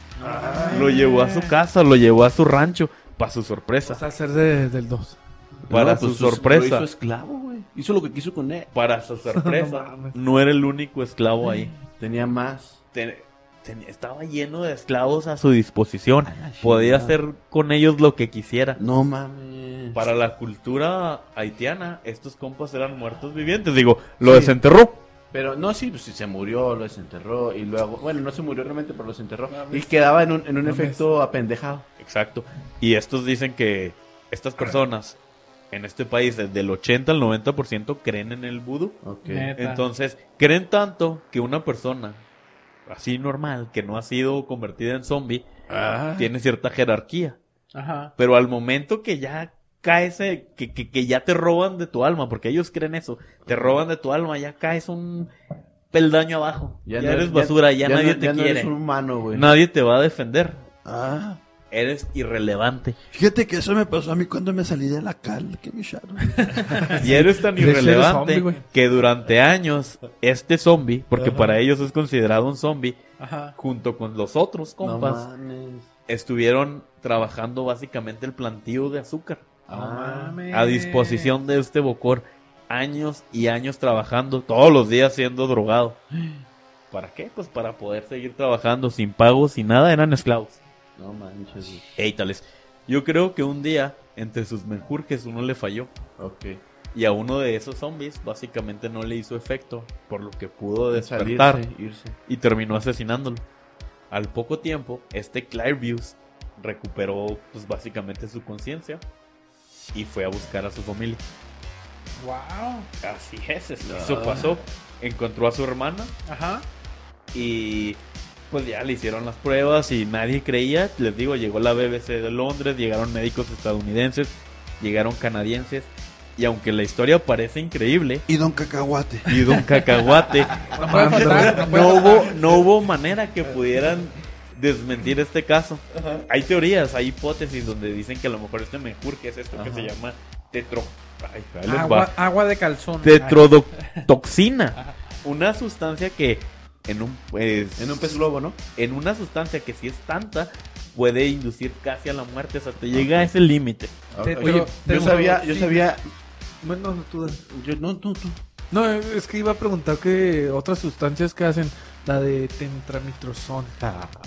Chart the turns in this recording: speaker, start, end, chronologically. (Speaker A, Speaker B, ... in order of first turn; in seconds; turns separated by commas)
Speaker A: 0.2-1.5, Speaker B: 0.2-1.0, Speaker C: 0.2-0.9, Speaker D: 0.7-4.1, Speaker B: 3.8-5.2, Speaker E: 5.7-8.7, Speaker D: 5.7-6.9, Speaker D: 8.7-11.7, Speaker B: 9.3-10.2, Speaker E: 11.8-12.8, Speaker D: 12.9-18.8, Speaker E: 16.2-17.2, Speaker E: 18.8-20.0, Speaker D: 19.9-25.0, Speaker E: 24.2-24.5, Speaker E: 25.3-31.9, Speaker B: 29.5-29.9, Speaker B: 30.6-31.0, Speaker D: 32.0-35.2, Speaker D: 35.7-39.0, Speaker E: 39.0-39.5, Speaker A: 39.2-39.8, Speaker D: 39.6-42.2, Speaker D: 42.9-45.4, Speaker C: 45.7-46.2, Speaker D: 46.2-47.4, Speaker A: 47.7-48.1, Speaker D: 48.2-55.3, Speaker E: 53.5-53.8, Speaker D: 55.9-58.7, Speaker E: 56.9-59.5, Speaker D: 59.3-60.6, Speaker C: 60.8-61.4, Speaker D: 61.7-63.0, Speaker C: 63.1-66.6, Speaker B: 66.5-68.6, Speaker D: 67.0-73.0, Speaker E: 71.2-71.5, Speaker A: 73.2-73.5, Speaker D: 73.6-75.2, Speaker E: 74.8-75.9, Speaker D: 76.1-79.5, Speaker E: 79.7-80.4, Speaker A: 79.7-81.3, Speaker D: 80.5-86.0, Speaker E: 86.1-86.4, Speaker D: 86.9-90.6, Speaker E: 91.0-91.8, Speaker D: 92.0-95.9, Speaker E: 96.2-96.6, Speaker D: 96.9-101.6, Speaker E: 100.9-102.2, Speaker D: 102.3-103.4, Speaker D: 104.1-109.0, Speaker D: 109.9-111.2, Speaker A: 112.2-112.9, Speaker D: 113.0-116.1, Speaker E: 113.9-114.5, Speaker A: 116.2-116.7, Speaker D: 117.3-118.0, Speaker D: 118.5-128.2, Speaker C: 128.3-129.3, Speaker D: 129.3-142.1, Speaker A: 130.7-132.4, Speaker B: 130.8-131.7, Speaker E: 136.0-136.2, Speaker E: 139.5-139.9, Speaker A: 141.7-143.5, Speaker D: 143.0-154.0, Speaker E: 147.8-148.6, Speaker E: 152.9-153.3, Speaker E: 154.1-156.0, Speaker A: 154.2-155.8, Speaker B: 154.2-155.4, Speaker B: 156.6-157.4, Speaker E: 157.3-158.4, Speaker B: 158.7-163.8